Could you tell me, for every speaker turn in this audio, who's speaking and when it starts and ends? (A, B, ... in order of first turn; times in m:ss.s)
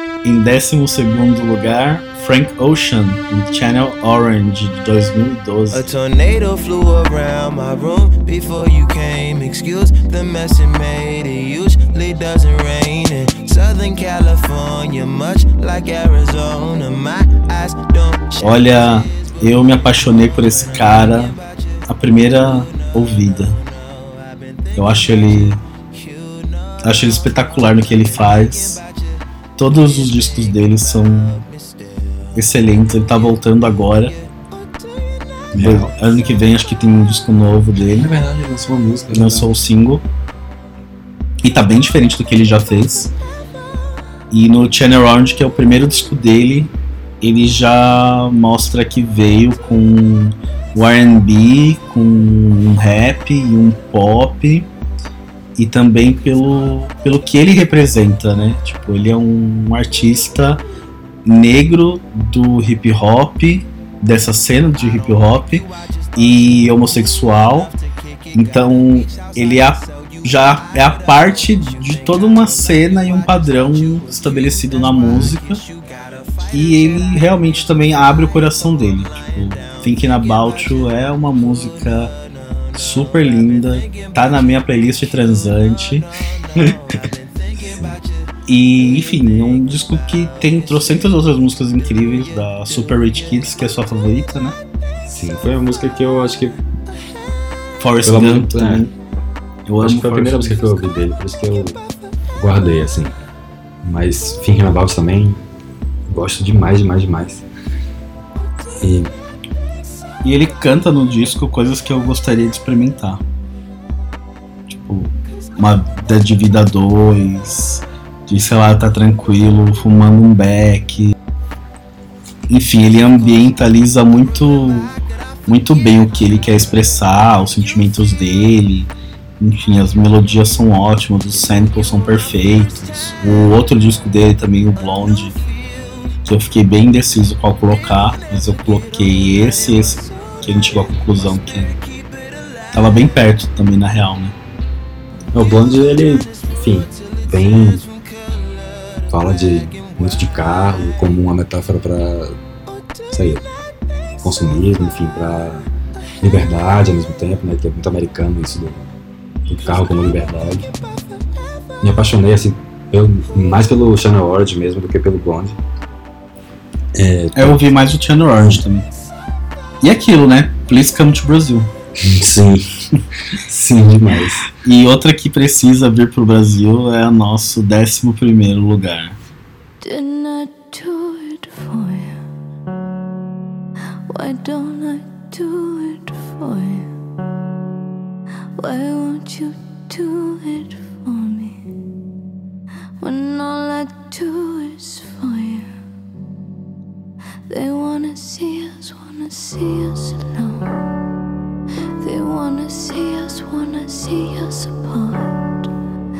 0:00.2-0:05.8 A
0:05.7-0:27.4 B
0:18.4-0:21.4 A
0:21.9-0:23.6 A
0:24.8-0:25.6 A
0:26.8-0:28.8 A
0:28.3-0:29.0 B
0:29.6-0:31.4 A
0:29.9-0:32.3 B
0:32.4-0:34.2 A
0:35.5-0:35.9 C
0:35.5-0:38.1 A
0:37.9-0:39.5 C
0:39.1-0:40.0 A
0:41.4-0:43.1 A
0:44.3-0:46.7 A
0:47.2-0:54.7 A
0:55.6-1:00.6 A
1:01.2-1:07.7 A
1:05.9-1:17.2 B
1:08.3-1:15.6 A
1:16.5-1:22.1 A
1:19.1-1:25.2 B
1:22.8-1:27.0 A
1:26.6-1:28.1 B
1:27.6-1:28.0 C
1:28.5-1:34.6 A
1:35.0-1:36.6 C
1:37.8-1:38.9 A
1:38.0-1:38.9 C
1:39.7-1:40.6 A
1:39.8-1:41.8 C
1:42.4-1:43.2 C
1:43.8-1:45.4 C
1:46.1-1:47.5 C
1:48.8-1:49.1 C
1:50.2-1:53.2 A
1:54.7-2:01.2 A
2:02.5-2:04.9 A
2:05.5-2:15.4 A
2:16.2-2:21.8 A
2:22.7-2:24.4 A
2:25.3-2:27.9 C
2:29.1-2:32.4 C
2:33.1-2:33.4 C
2:34.2-2:35.7 C
2:36.2-2:38.9 C
2:39.5-2:40.7 C
2:41.8-2:45.6 C
2:46.9-2:47.6 C
2:47.4-2:48.9 A
2:48.4-2:48.6 C
2:49.8-2:51.7 A
2:52.0-2:52.7 C
2:53.5-2:54.4 C
2:54.5-2:59.2 A
2:59.8-3:02.2 D
3:04.1-3:06.9 D
3:08.6-3:11.6 D
3:13.0-3:15.7 D
3:17.5-3:20.8 D
3:22.0-3:25.7 D